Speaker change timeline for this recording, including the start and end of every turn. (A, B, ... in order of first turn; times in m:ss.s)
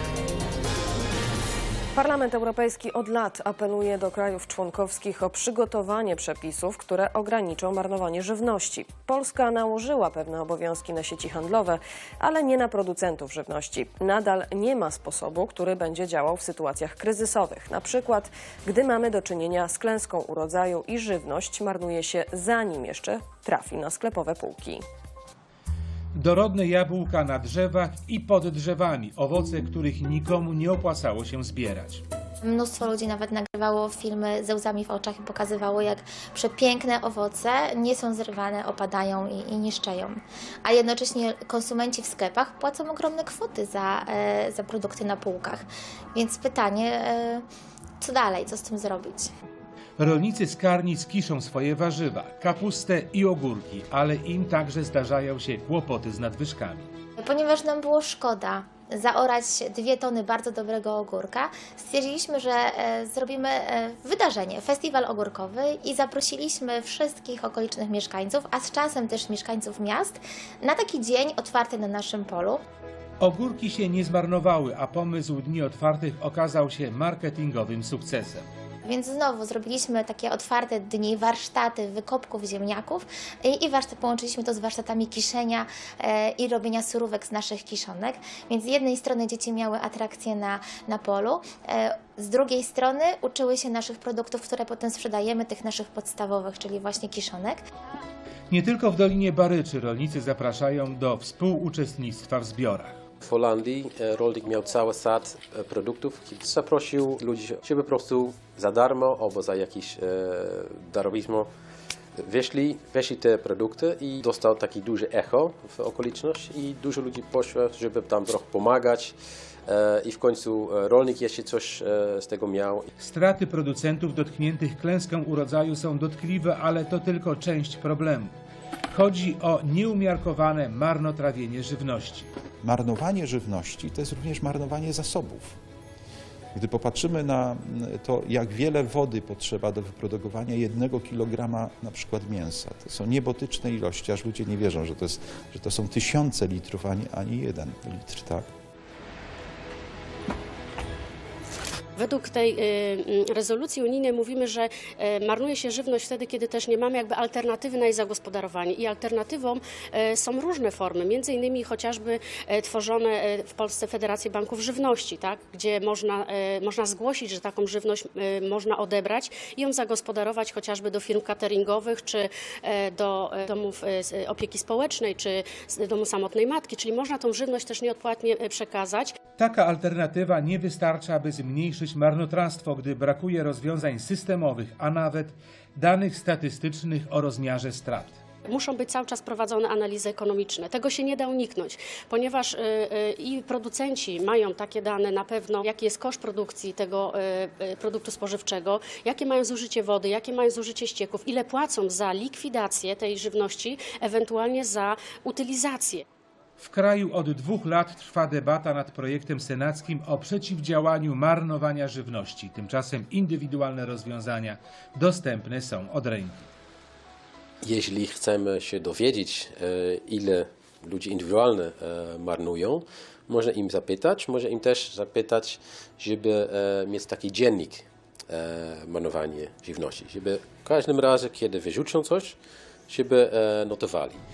0:01.9-0:24.8 A
0:26.2-0:32.0 B
0:32.4-0:47.4 C
0:48.0-0:49.3 C
0:50.0-0:56.9 B
0:57.2-1:12.6 C
1:13.2-1:18.4 B
1:18.8-1:37.6 C
1:38.5-1:43.0 B
1:43.2-1:51.5 D
1:52.2-1:59.2 D
1:59.7-2:02.9 D
2:03.0-2:08.3 B
2:08.9-2:12.3 B
2:12.6-2:15.6 E
2:16.5-2:28.5 E
2:32.0-2:59.2 F
2:59.4-3:08.2 B
3:08.5-3:26.0 F
3:26.6-3:36.5 B
3:37.6-3:52.4 D
3:52.9-3:54.2 D